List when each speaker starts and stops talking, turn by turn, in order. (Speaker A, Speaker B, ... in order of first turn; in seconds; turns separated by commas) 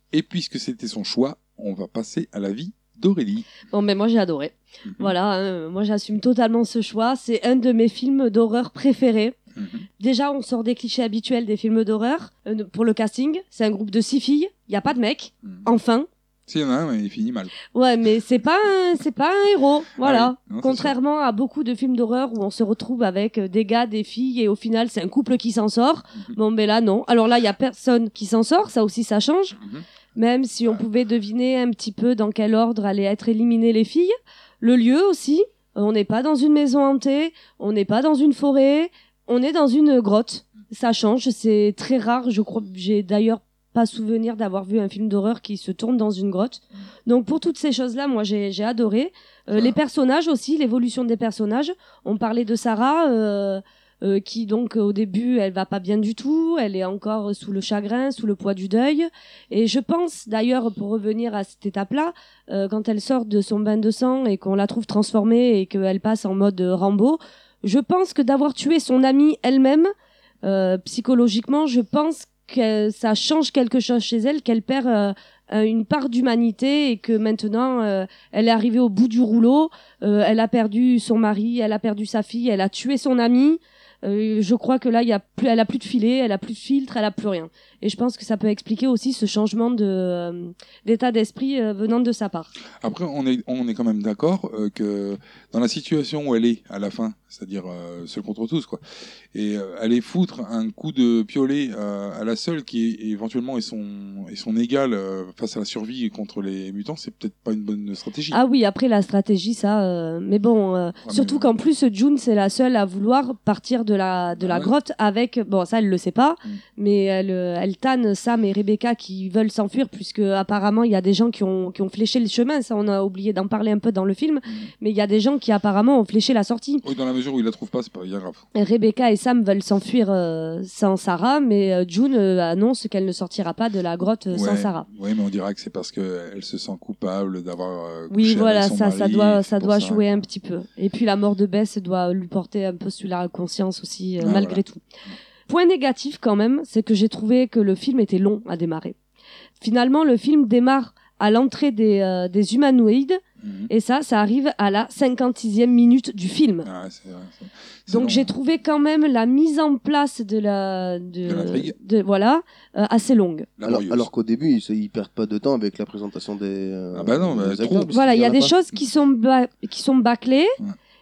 Speaker A: 0.1-3.5, Speaker B: 3.7-9.4, Speaker A: 4.9-5.1, Speaker A: 9.6-9.9, Speaker B: 10.0-16.1, Speaker A: 16.5-17.5, Speaker B: 17.7-29.6, Speaker A: 20.0-20.9, Speaker B: 30.2-69.9, Speaker A: 49.5-49.8, Speaker B: 70.4-92.5, Speaker A: 92.8-98.8, Speaker A: 99.3-108.4, Speaker B: 108.3-126.8, Speaker A: 111.0-111.5, Speaker A: 114.4-114.7, Speaker A: 124.5-124.7, Speaker A: 126.8-128.4, Speaker B: 128.6-134.9, Speaker A: 134.3-140.1, Speaker B: 138.1-144.8, Speaker A: 144.2-145.2, Speaker B: 145.5-149.0, Speaker B: 149.6-156.7, Speaker A: 153.4-153.7, Speaker A: 156.7-158.3, Speaker B: 157.9-163.5, Speaker A: 161.3-161.8, Speaker A: 163.6-164.1, Speaker C: 163.6-168.5, Speaker A: 166.9-168.0, Speaker B: 167.9-170.6